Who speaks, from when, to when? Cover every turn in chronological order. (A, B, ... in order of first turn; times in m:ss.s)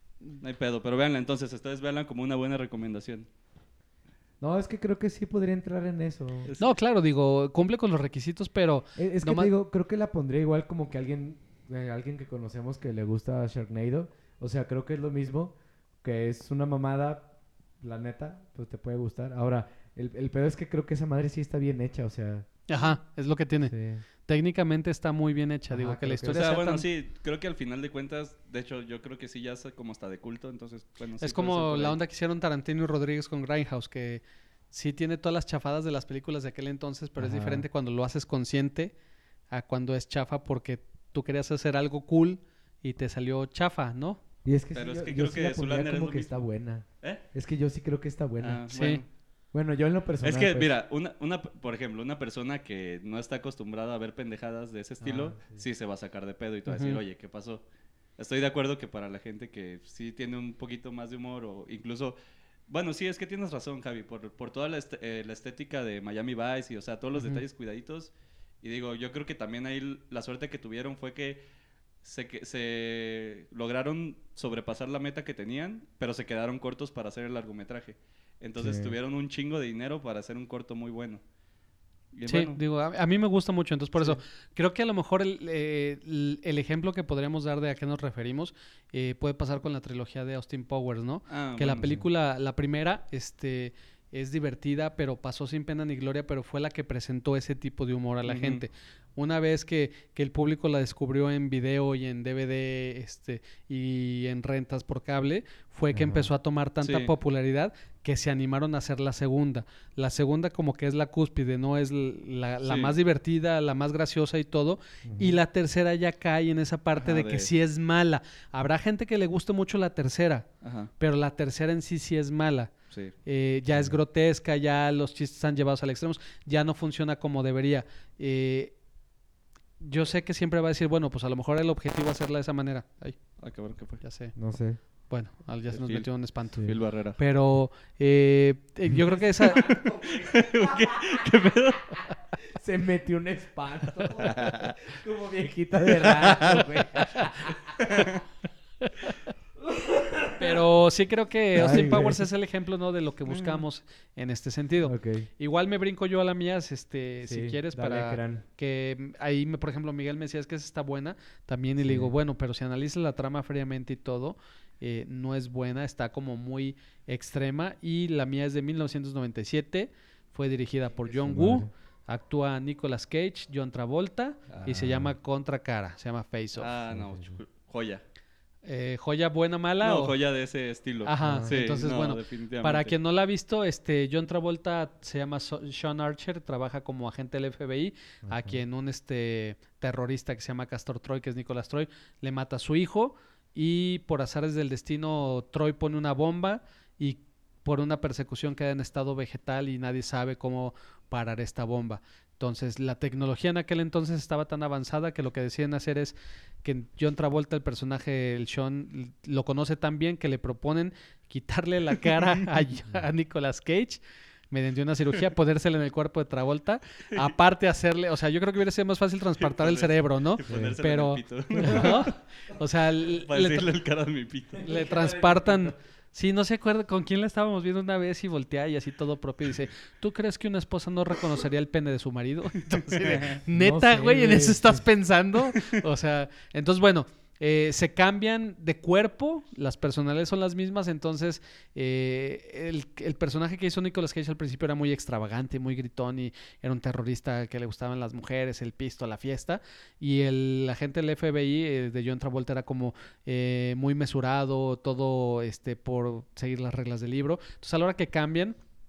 0:00.4-0:03.3 A
0:04.4-0:06.5 B
0:06.4-0:06.7 A
0:06.6-0:09.5 C
0:09.0-0:17.3 B
0:17.8-0:22.9 B
0:22.7-0:23.7 C
0:23.7-0:24.0 B
0:24.3-0:26.8 C
0:25.7-0:26.6 B
0:26.3-0:32.0 A
0:31.2-0:38.9 C
0:37.2-0:37.6 B
0:39.5-0:44.2 C
0:44.4-0:48.6 B
0:44.7-0:46.3 A
0:48.4-0:49.1 A
0:48.7-0:49.0 C
0:49.5-0:50.7 B
0:50.2-0:57.6 A
0:55.0-0:55.6 B
0:56.7-0:57.0 C
0:58.2-1:02.2 A
1:02.7-1:11.4 A
1:12.0-1:21.2 A
1:18.6-1:18.9 B
1:22.1-1:22.6 A
1:22.3-2:00.4 C
1:31.3-1:31.9 A
1:38.2-1:38.6 A
1:45.9-1:46.3 B
1:46.8-1:47.1 A
1:52.6-1:52.9 A
1:55.0-1:55.4 B
1:57.0-1:57.5 A
2:00.6-2:00.9 A
2:01.0-2:02.7 C
2:03.2-2:08.7 C
2:03.7-2:04.0 B
2:09.8-2:13.2 C
2:13.4-2:14.0 A
2:14.0-2:14.3 C
2:14.4-2:14.8 B
2:15.1-2:19.7 C
2:15.7-2:16.1 A
2:16.6-2:17.2 A
2:18.9-2:21.1 B
2:19.4-2:22.0 A
2:22.5-2:28.1 B
2:24.2-2:24.8 A
2:25.9-2:27.1 A
2:27.8-2:28.2 A
2:28.8-2:29.3 C
2:30.3-2:56.7 C
2:31.5-2:32.2 B
2:33.3-2:33.6 A
2:34.8-2:35.3 B
2:37.2-2:38.4 B
2:41.8-2:42.1 B
2:51.0-2:51.7 B
2:54.6-2:55.1 B
2:56.6-2:58.0 A
2:56.9-2:57.4 B
2:58.6-3:00.1 C
2:59.8-3:03.0 A
3:01.0-3:43.7 C
3:01.2-3:01.5 B
3:08.2-3:08.6 B
3:39.4-3:42.2 A
3:40.5-3:40.8 B
3:41.6-3:41.9 B
3:43.2-3:44.7 A
3:44.6-3:45.7 B
3:44.6-4:18.6 C
3:52.9-3:53.4 A
3:53.5-3:54.8 B